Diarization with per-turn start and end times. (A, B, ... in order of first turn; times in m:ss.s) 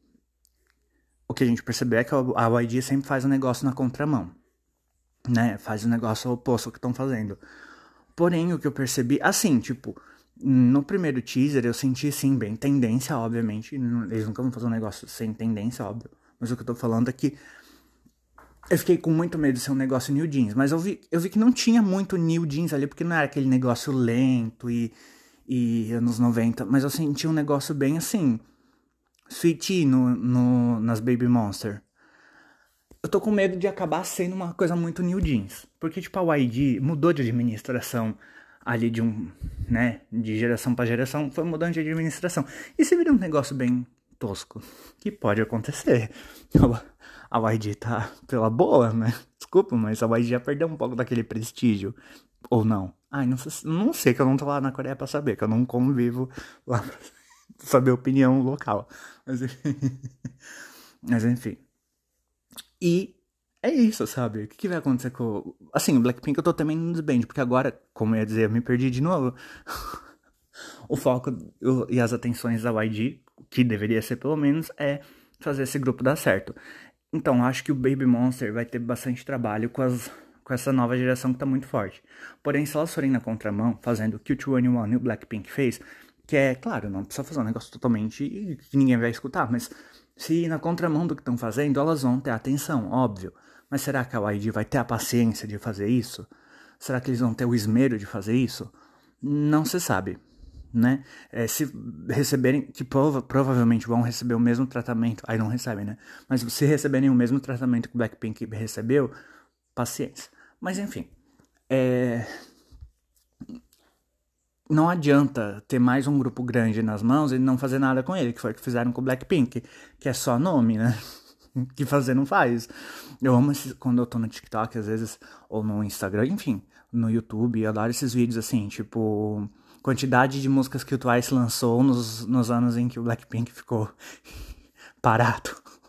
0:01.3-0:04.3 A
0:05.3-0:07.4 A
0:08.2-0:17.4 A
0:18.7-0:24.9 A
0:25.5-0:28.4 A
0:29.3-0:31.8 A
0:33.0-0:52.0 A
0:52.5-1:00.1 A
1:01.1-1:01.6 A
1:02.8-1:10.0 A
1:10.9-1:16.6 A
1:17.1-1:36.3 A
1:36.8-1:40.2 A
1:40.7-1:49.1 A
1:49.7-1:51.1 A
1:51.7-1:52.3 A
1:54.7-2:01.0 A
2:01.6-2:02.7 A
2:03.2-2:13.9 A
2:15.0-2:15.6 A